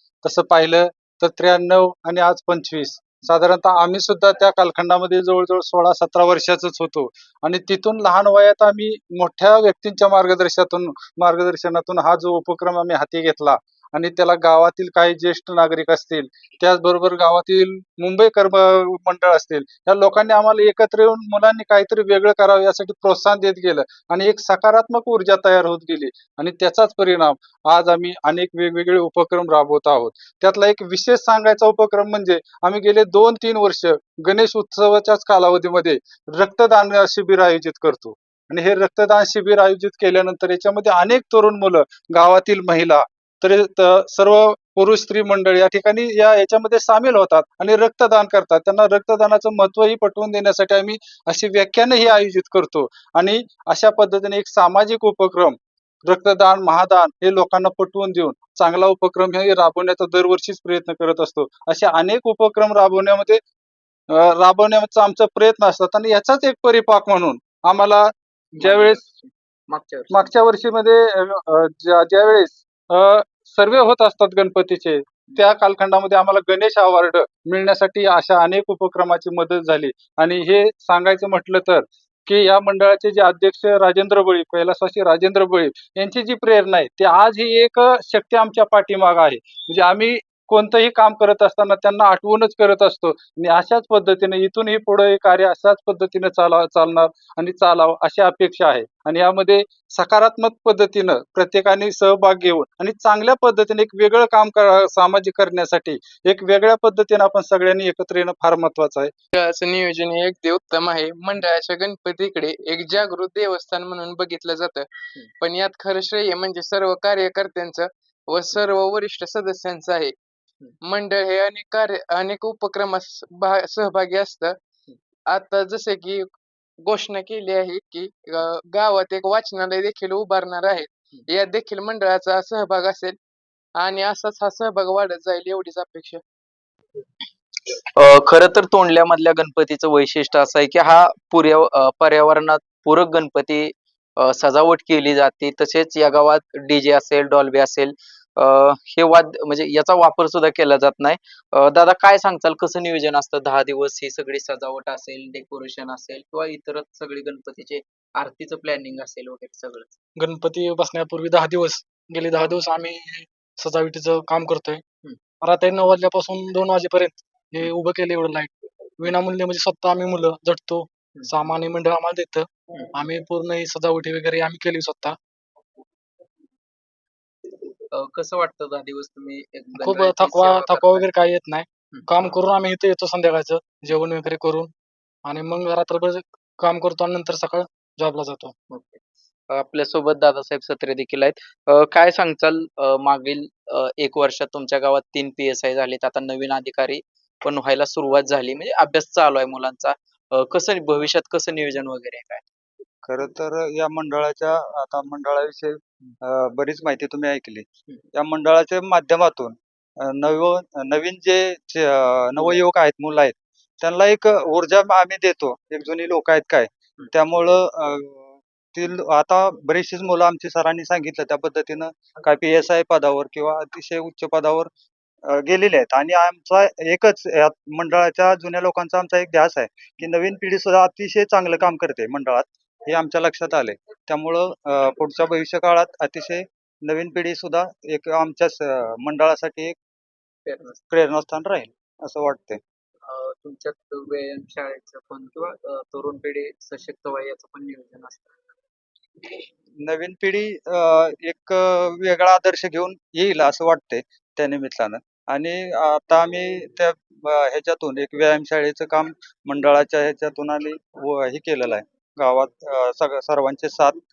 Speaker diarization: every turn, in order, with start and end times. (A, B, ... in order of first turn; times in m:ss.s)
0:00.2-1:03.4 A
1:04.1-1:08.1 A
1:08.6-1:10.3 B
1:10.2-1:49.1 A
1:49.3-1:54.9 C
1:55.4-2:00.1 C
2:00.8-2:04.6 C
2:05.3-2:06.2 C
2:06.8-2:13.2 C
2:13.8-2:16.2 C
2:17.9-2:39.9 B
2:40.2-2:44.8 D
2:45.4-2:55.2 D
2:57.9-3:01.1 B
2:59.8-3:04.7 D
3:05.2-3:08.5 D
3:08.7-3:22.4 B
3:23.0-3:25.7 E
3:26.3-3:29.6 E
3:30.2-3:38.2 E
3:38.8-3:44.7 E
3:45.3-3:59.7 E
4:00.4-4:00.8 B
4:00.9-4:02.6 E
4:03.1-4:08.3 B
4:09.8-4:24.0 E